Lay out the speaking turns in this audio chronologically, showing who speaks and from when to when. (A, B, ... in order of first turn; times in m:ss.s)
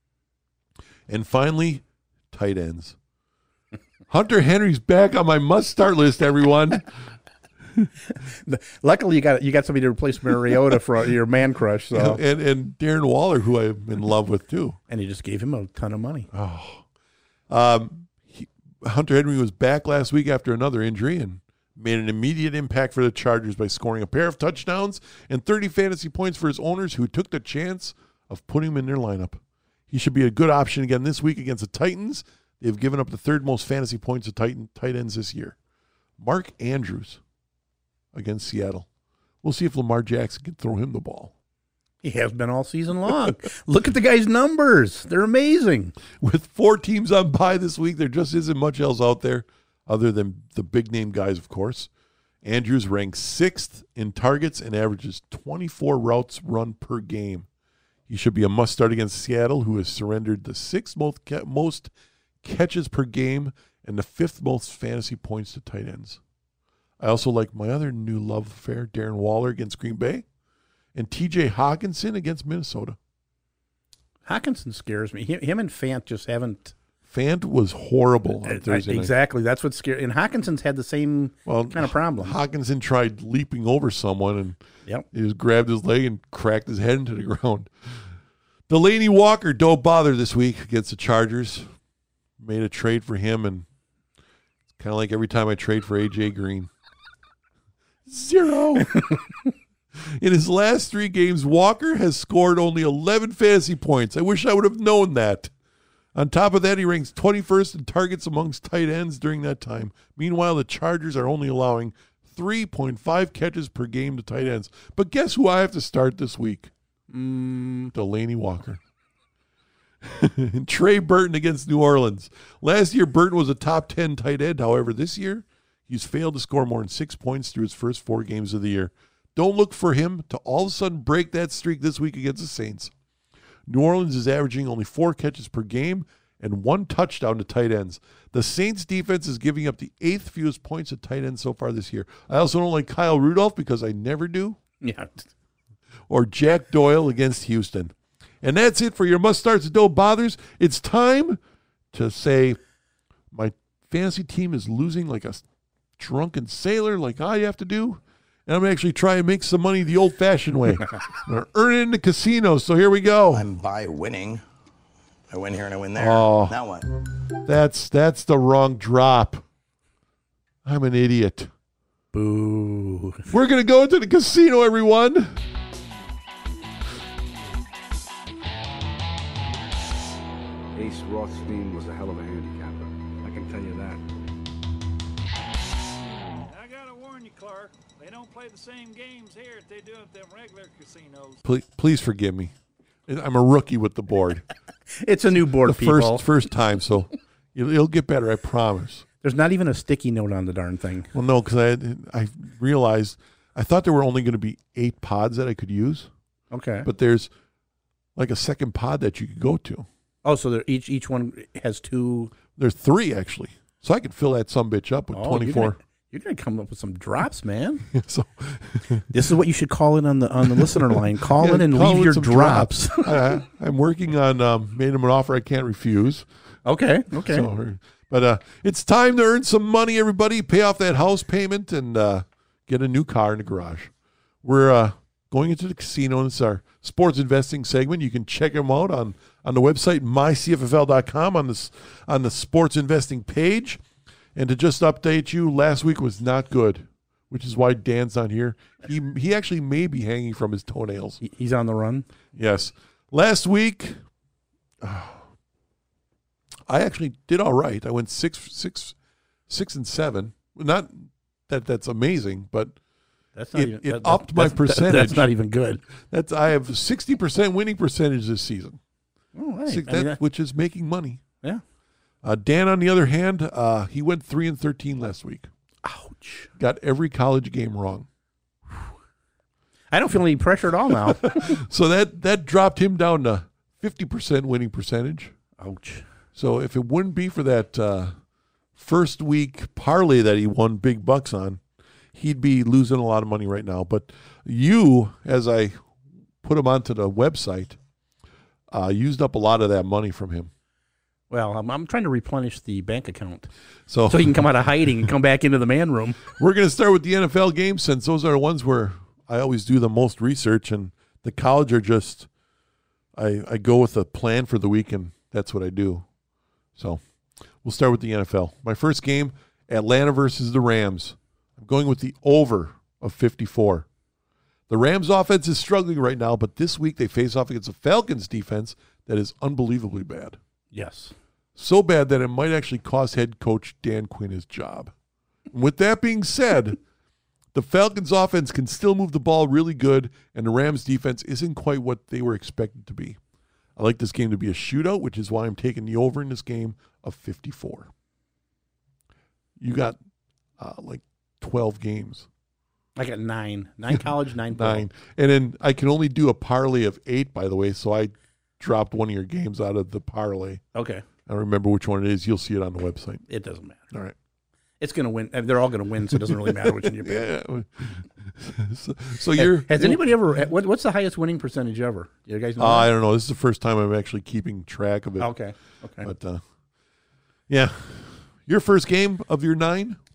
0:01.1-0:03.0 A
0:04.1-0:06.9 A
0:08.1-0:12.2 B
0:11.9-0:14.8 A
0:14.9-0:16.3 B
0:16.3-0:16.8 A
0:17.5-0:35.6 A
0:36.2-0:37.2 A
0:38.1-0:38.8 A
0:39.4-0:41.3 A
0:42.0-0:45.9 B
0:46.1-0:51.9 A
0:52.4-0:57.5 A
0:58.1-1:01.9 A
1:02.4-1:06.2 A
1:07.0-1:10.2 A
1:10.9-1:13.0 A
1:14.2-1:16.7 B
1:17.1-1:19.1 A
1:18.4-1:22.4 B
1:21.4-1:24.6 A
1:25.1-1:28.0 A
1:28.7-1:31.7 A
1:32.4-1:33.6 A
1:34.8-1:36.7 A
1:38.0-1:39.1 A
1:40.0-1:45.5 A
1:46.1-1:56.7 A
1:57.1-1:57.9 B
1:57.9-1:58.8 A
2:00.0-2:12.9 A
2:13.7-2:24.6 A
2:24.8-2:25.3 B
2:26.1-2:31.4 A
2:31.9-2:32.6 A
2:33.3-2:35.4 A
2:36.0-2:43.4 A
2:43.3-2:44.4 C
2:45.3-2:46.9 C
2:46.0-2:46.6 A
2:47.4-2:49.4 A
2:50.6-2:51.5 A
2:52.1-2:53.3 B
2:53.3-2:55.3 A
3:00.7-3:04.0 D
3:06.4-3:11.4 E
3:11.4-3:12.5 A
3:13.1-3:14.4 A
3:14.9-3:16.3 B
3:15.6-3:19.0 A
3:19.2-3:21.1 B
3:21.1-3:26.1 A
3:26.5-3:26.9 B
3:26.8-3:27.3 A
3:28.2-3:29.9 A
3:30.2-3:32.3 B
3:32.5-3:35.8 A
3:35.1-3:37.9 B
3:37.9-3:39.1 A
3:39.1-3:43.3 B
3:40.4-3:46.3 A
3:46.6-3:47.5 B
3:47.1-3:53.9 A
3:54.4-4:03.8 A
4:04.3-4:11.2 A
4:11.2-4:12.1 B
4:12.3-4:14.0 A
4:14.8-4:15.2 A
4:16.7-4:18.9 A
4:19.5-4:22.8 A
4:23.4-4:25.8 B
4:23.5-4:25.3 A
4:26.0-4:28.8 A
4:29.3-4:30.2 B
4:29.7-4:31.2 A
4:32.2-4:35.5 A
4:35.8-4:36.5 B
4:36.6-4:38.1 A
4:39.9-4:41.5 B
4:41.2-4:45.3 A
4:45.6-4:46.0 B
4:46.3-4:48.1 A
4:48.8-4:51.6 A
4:52.1-4:55.8 A
4:56.4-4:57.8 A
4:58.7-5:00.5 A
5:01.3-5:03.5 B
5:03.9-5:04.4 A
5:04.1-5:06.2 B
5:06.3-5:12.3 A
5:13.2-5:16.0 A
5:16.8-5:17.0 A
5:17.6-5:23.8 A
5:24.7-5:30.4 A
5:30.7-5:31.1 B
5:31.6-5:34.9 A
5:35.5-5:36.8 A
5:37.5-5:43.2 A
5:43.8-5:47.9 A
5:49.6-5:50.0 A
5:50.6-5:52.3 A
5:53.0-5:54.9 B
5:53.9-6:00.6 A
6:00.7-6:01.0 B
6:01.2-6:03.2 A
6:03.3-6:03.8 B
6:04.8-6:07.2 B
6:06.3-6:10.1 A
6:09.4-6:12.9 B
6:12.6-6:15.3 A
6:15.2-6:16.1 B
6:16.0-6:16.4 A
6:17.5-6:20.0 A